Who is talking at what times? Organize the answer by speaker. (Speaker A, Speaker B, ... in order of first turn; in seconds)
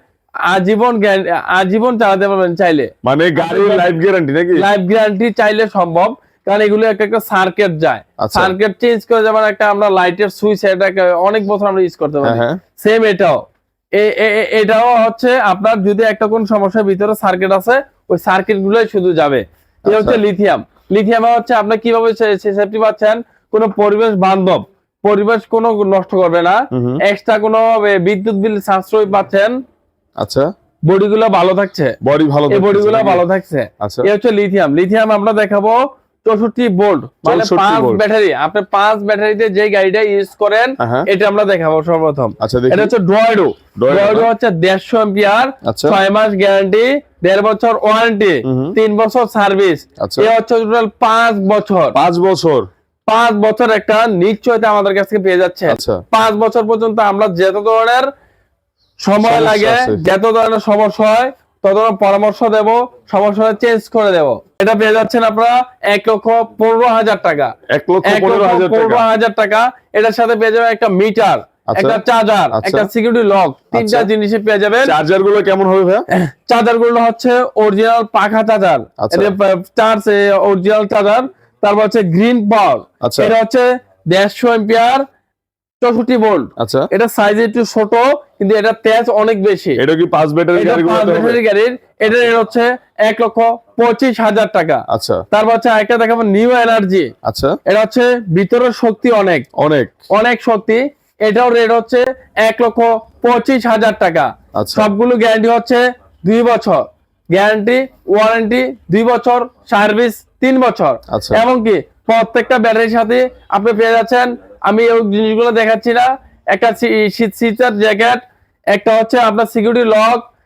Speaker A: 0.5-3.9, 4.5-13.4, 14.0-29.6, 30.9-32.0, 32.5-52.0, 53.1-58.1, 59.0-67.5, 68.0-75.0, 76.1-85.0, 85.8-89.8, 90.5-97.1, 97.7-99.5, 100.1-106.8, 107.3-118.2, 118.7-120.2
Speaker B: 3.0-4.6, 8.2-8.5, 12.2-12.6, 19.9-20.2, 26.7-27.0, 30.2-30.5, 32.0-33.2, 33.8-34.1, 37.2-38.0, 40.8-41.1, 42.4-42.9, 43.8-44.3, 45.6-46.0, 48.4-48.8, 50.0-50.3, 51.9-52.7, 55.7-56.0, 59.2-60.0, 67.7-69.0, 71.7-72.0, 72.5-72.9, 73.7-74.1, 74.8-76.1, 79.0-79.3, 83.0-83.3, 86.6-86.9, 89.8-91.4, 94.9-95.2, 97.2-97.6, 99.6-99.9, 104.5-104.9, 111.1-111.4